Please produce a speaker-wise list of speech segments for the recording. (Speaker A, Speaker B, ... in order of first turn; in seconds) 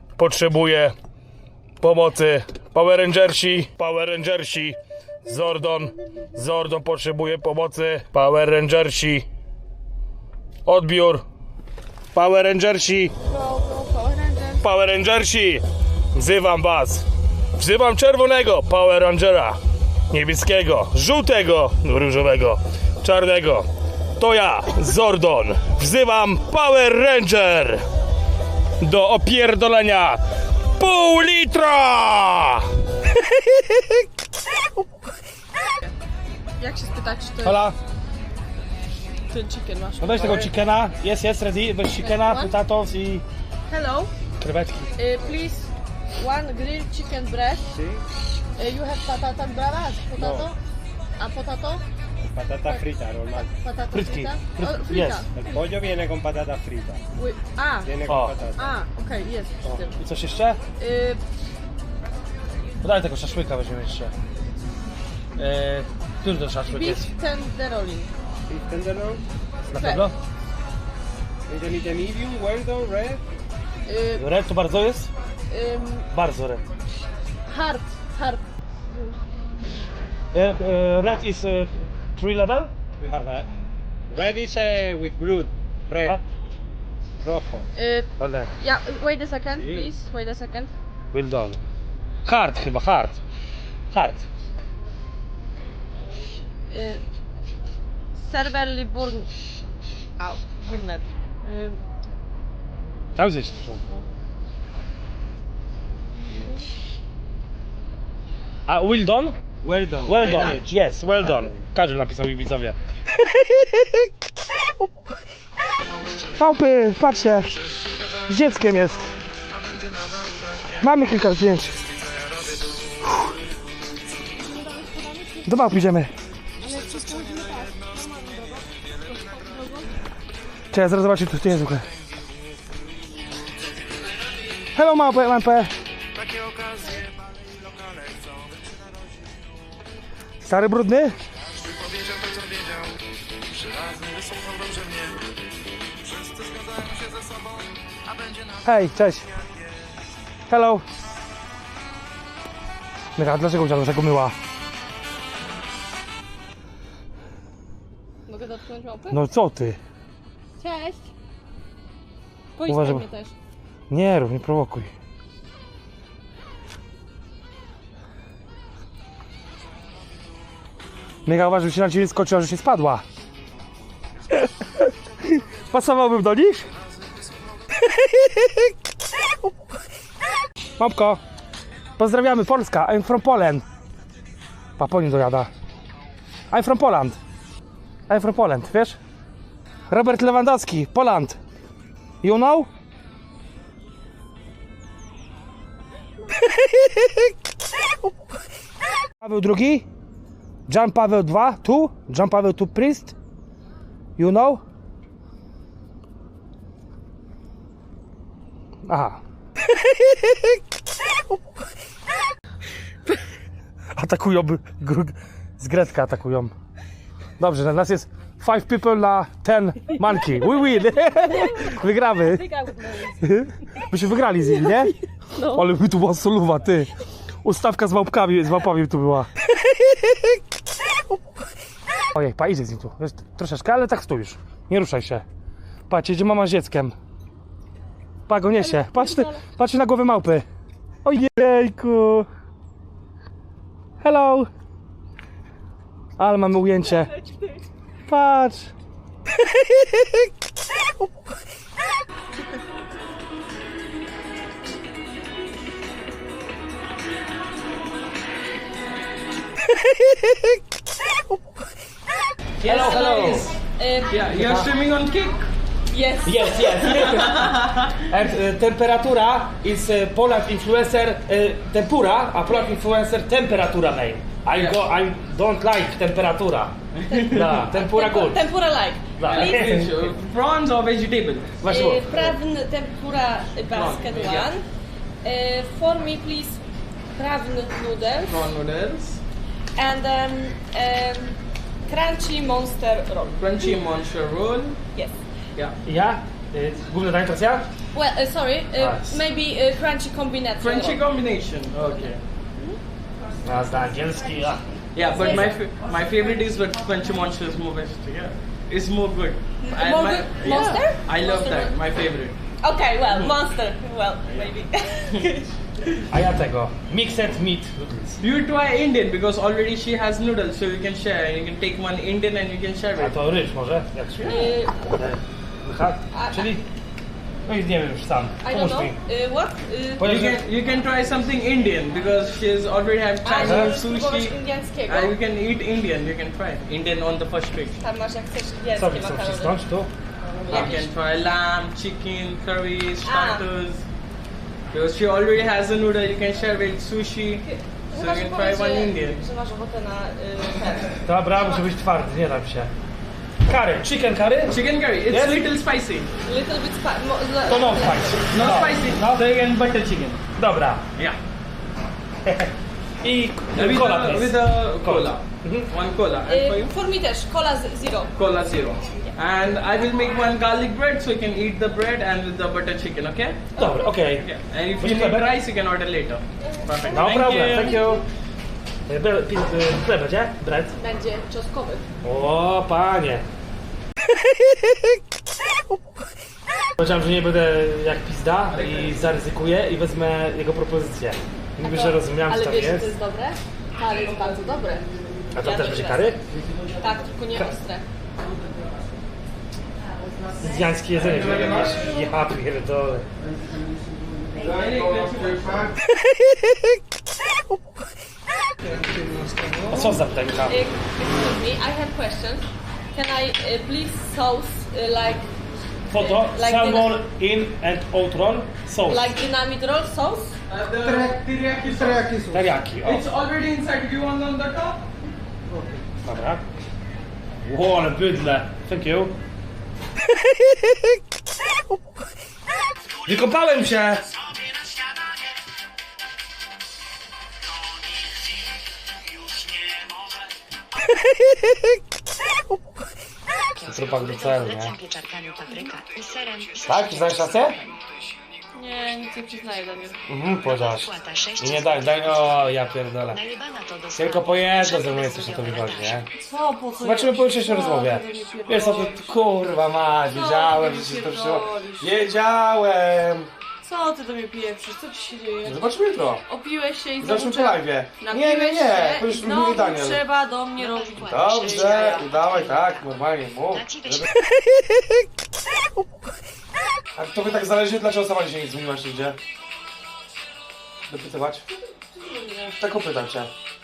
Speaker A: 0.2-0.9, 1.8-9.3, 10.7-11.2, 12.1-13.1, 14.6-15.6, 16.1-17.1, 17.6-19.6, 20.1-23.7, 24.2-27.8, 28.8-30.2, 30.8-32.7, 37.4-37.8, 40.0-43.2, 44.4-45.0, 53.9-55.3, 58.1-58.4, 60.0-60.6, 62.8-64.1, 65.4-67.1, 69.7-70.2, 74.2-75.1, 76.1-76.6, 80.3-82.8, 88.2-88.5, 91.1-91.6, 92.2-93.2, 93.9-94.2, 103.2-103.8, 108.7-109.4, 110.0-112.8, 113.3-114.1, 116.4-117.6, 118.3-119.1, 120.8-121.9, 123.0-123.3, 125.5-126.1, 130.7-131.9, 134.8-138.8, 140.4-141.2, 141.7-142.8, 143.6-145.2, 146.1-147.2, 148.5-149.3, 150.5-150.8, 153.2-154.3, 159.1-159.8, 162.7-163.1, 163.9-164.9, 171.2-173.0, 174.3-174.8, 175.7-176.7, 180.8-181.2, 182.0-183.7, 184.8-185.5, 186.5-187.2, 188.1-189.0, 189.9-191.4, 192.2-192.7, 199.2-199.9, 200.7-203.2, 204.2-204.6, 208.9-209.2, 213.9-216.5, 217.4-222.5, 223.2-226.9, 227.4-229.3, 232.1-235.2, 235.9-237.0, 238.3-240.4, 241.0-242.3, 244.0-244.5, 246.2-247.1, 248.1-248.7, 262.6-263.5, 264.3-264.7, 266.2-276.7, 277.3-278.5, 279.2-280.1, 281.6-282.4, 295.9-297.7, 298.7-299.2, 303.4-304.6, 310.5-310.8, 316.1-318.2, 323.0-326.6, 327.5-329.0, 330.0-330.4, 333.4-333.8, 338.7-339.9, 340.5-340.8, 351.1-352.7, 353.5-355.5, 357.5-359.2, 360.4-360.9, 362.2-362.5, 363.0-365.7, 373.6-375.4, 376.9-378.0, 378.9-380.7, 382.0-383.2, 386.8-392.9, 395.3-396.2, 400.4-403.1, 404.6-405.1, 408.6-410.6, 415.9-419.1, 422.3-423.1, 426.0-426.4, 427.4-429.1, 433.1-434.1, 443.6-444.8, 446.6-447.6, 450.1-453.2, 453.9-456.1, 456.8-463.3, 465.4-466.2, 467.0-470.0, 471.0-474.1, 476.9-479.2, 480.9-481.4, 482.6-483.3
Speaker B: 13.3-14.7, 36.6-37.6, 39.3-40.5, 42.0-42.5, 43.7-44.1, 45.0-47.7, 48.6-50.6, 51.2-51.8, 53.4-55.6, 57.1-57.9, 58.6-60.0, 60.8-61.2, 66.7-68.1, 69.7-70.1, 73.8-74.2, 75.5-76.1, 77.5-78.4, 87.8-90.7, 96.7-97.0, 98.2-99.3, 100.2-101.8, 124.4-125.5, 126.6-129.9, 158.3-159.2, 160.6-161.1, 162.6-163.3, 219.9-220.5, 221.0-223.3, 225.2-225.7, 238.6-239.4, 246.8-247.6, 262.7-264.2, 265.9-267.4, 277.1-279.7, 281.6-284.6, 285.2-286.6, 287.1-288.4, 289.8-293.8, 294.9-295.2, 297.9-301.0, 301.8-302.8, 305.1-306.4, 309.6-311.8, 312.6-315.5, 324.2-324.9, 326.1-326.5, 328.4-330.1, 333.2-335.2, 337.8-339.6, 343.0-343.5, 347.4-351.7, 356.2-358.3, 366.3-368.1, 373.6-373.8, 376.4-378.0, 380.8-381.9, 391.6-394.8, 395.4-396.2, 396.8-397.9, 410.4-415.3, 415.9-417.0, 418.9-420.4, 448.5-450.0, 456.2-459.1, 460.1-461.9, 463.6-465.6, 466.3-472.1, 481.5-482.6
Speaker C: 47.7-48.0, 50.1-50.5, 52.2-53.5, 55.3-57.0, 57.8-58.7, 68.5-69.2, 71.5-73.2, 83.0-83.5, 84.1-86.2, 87.2-87.7, 89.6-89.9, 109.6-110.7, 420.9-421.1, 421.7-422.4
Speaker D: 262.6-265.4, 267.0-267.6, 274.5-274.8, 277.0-277.6, 279.2-281.6, 283.7-284.5, 288.2-289.2, 293.4-294.8, 300.6-302.2, 304.9-312.4, 313.0-313.4, 314.3-314.5, 318.2-323.2, 330.0-337.8, 340.5-343.9, 344.7-349.2, 354.5-356.1, 358.3-360.2, 363.5-366.7, 368.1-378.0, 388.5-389.0, 400.9-401.8, 404.3-405.7, 420.5-422.3, 422.8-424.9
Speaker E: 443.6-447.9, 450.4-456.1, 470.6-472.9, 473.5-474.1